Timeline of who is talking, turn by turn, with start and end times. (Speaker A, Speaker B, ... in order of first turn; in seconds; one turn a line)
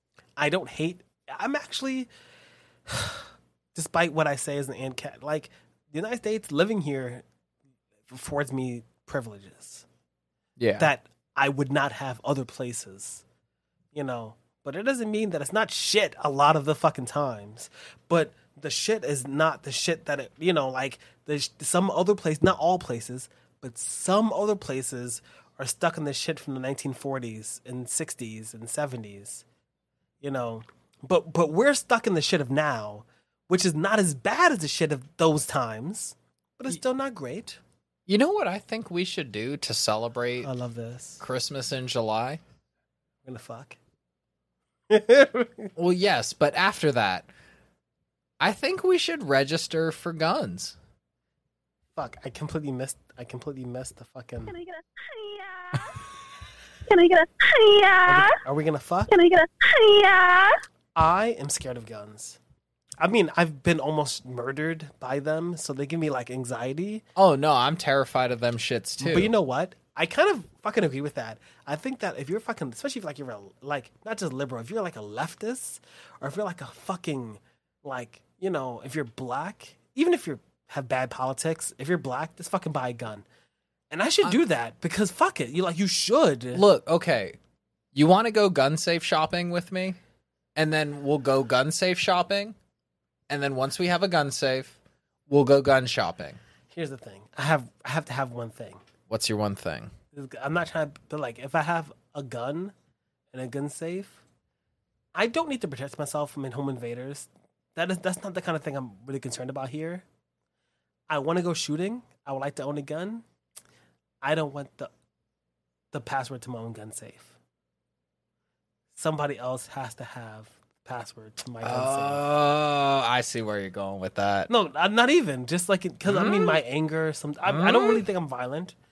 Speaker A: 0.4-2.1
Speaker A: 2.9-7.2
Speaker A: 8.1-9.9
Speaker B: 10.6-10.9
Speaker A: 10.8-13.2
Speaker A: 13.9-29.4
Speaker A: 30.2-37.6
Speaker B: 38.1-40.5
Speaker A: 40.4-41.2
Speaker B: 41.2-42.4
Speaker A: 43.2-43.8
Speaker A: 44.9-45.7
Speaker B: 45.8-47.3
Speaker B: 48.4-50.8
Speaker A: 52.0-54.5
Speaker C: 54.5-56.0
Speaker C: 56.9-58.3
Speaker A: 58.1-59.1
Speaker C: 59.1-60.6
Speaker A: 61.0-62.4
Speaker A: 63.0-67.0
Speaker B: 67.2-69.3
Speaker A: 69.0-83.2
Speaker A: 83.9-86.6
Speaker B: 86.5-87.4
Speaker B: 87.9-90.0
Speaker B: 90.6-92.6
Speaker B: 93.3-94.8
Speaker B: 95.3-96.4
Speaker A: 96.7-98.8
Speaker B: 99.1-99.9
Speaker A: 100.1-102.7
Speaker A: 103.3-104.2
Speaker A: 105.2-110.0
Speaker A: 111.1-113.2
Speaker A: 114.2-114.9
Speaker A: 115.9-117.3
Speaker A: 119.0-122.2
Speaker B: 121.6-124.5
Speaker A: 124.5-128.8
Speaker B: 126.1-126.6
Speaker B: 127.5-128.0